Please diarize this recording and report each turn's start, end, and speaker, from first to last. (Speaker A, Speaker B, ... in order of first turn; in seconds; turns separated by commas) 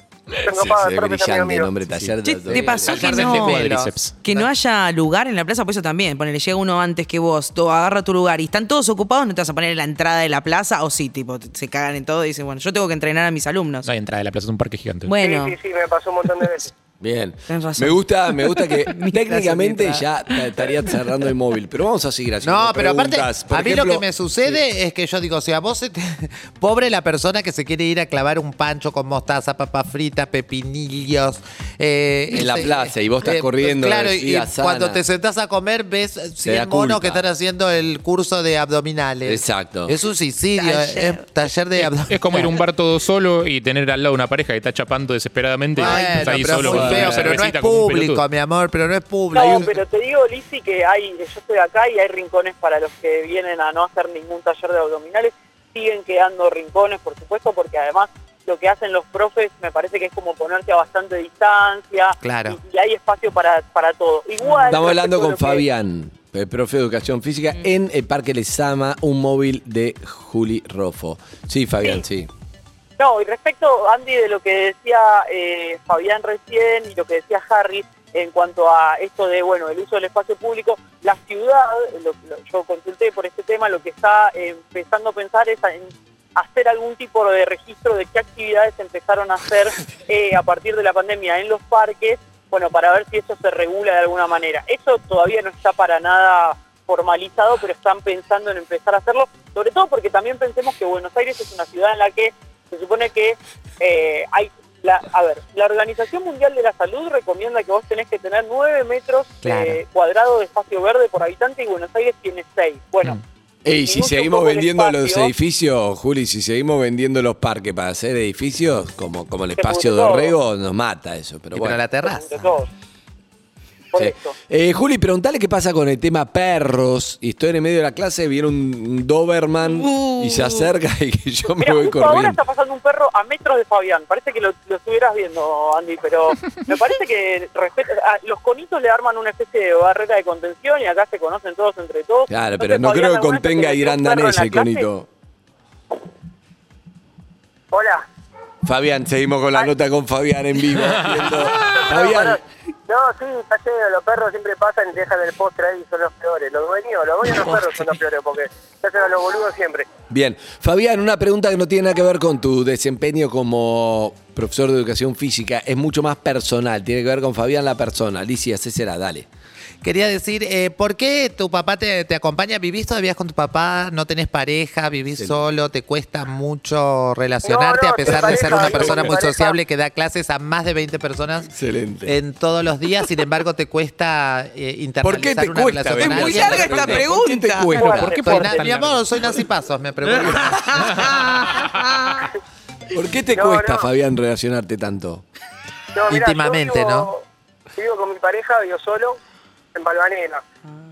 Speaker A: 0.4-3.2, Speaker B: 0.4-1.7, Speaker C: 2.2-3.6, Speaker D: 2.5-4.5, Speaker E: 2.9-4.2, Speaker C: 4.2-13.9, Speaker E: 13.8-15.1, Speaker C: 15.1-15.6, Speaker B: 15.2-16.7, Speaker A: 17.0-24.6, Speaker C: 17.5-19.9, Speaker D: 22.4-42.5, Speaker A: 32.3-35.0, Speaker A: 36.4-37.2, Speaker A: 39.2-39.9, Speaker C: 40.6-41.2, Speaker E: 41.8-48.2, Speaker D: 45.7-49.7, Speaker C: 45.9-46.2, Speaker A: 46.6-47.4, Speaker F: 49.3-65.6, Speaker D: 62.2-62.6, Speaker A: 64.7-72.3, Speaker F: 73.0-113.2, Speaker D: 109.4-109.8, Speaker A: 113.6-121.8, Speaker F: 113.7-115.3, Speaker F: 119.6-120.3, Speaker D: 121.5-122.5, Speaker F: 122.0-122.7, Speaker F: 123.9-124.3, Speaker A: 123.9-132.4, Speaker C: 130.0-130.5, Speaker F: 131.6-144.9, Speaker A: 142.3-145.1, Speaker B: 147.7-148.0, Speaker A: 148.6-152.4, Speaker E: 151.1-151.8, Speaker B: 151.5-159.9, Speaker A: 160.1-169.3, Speaker D: 169.8-181.5, Speaker A: 175.1-175.4, Speaker B: 177.4-179.6, Speaker A: 178.4-179.0, Speaker A: 181.5-182.1, Speaker D: 182.1-187.1, Speaker A: 185.0-188.3, Speaker C: 186.0-187.9, Speaker E: 187.7-189.4, Speaker D: 188.1-191.2, Speaker C: 190.1-191.3, Speaker E: 190.8-192.2, Speaker A: 192.9-195.2, Speaker B: 193.3-193.9, Speaker B: 195.9-197.2, Speaker D: 196.1-197.1, Speaker B: 197.8-199.2, Speaker B: 199.7-200.4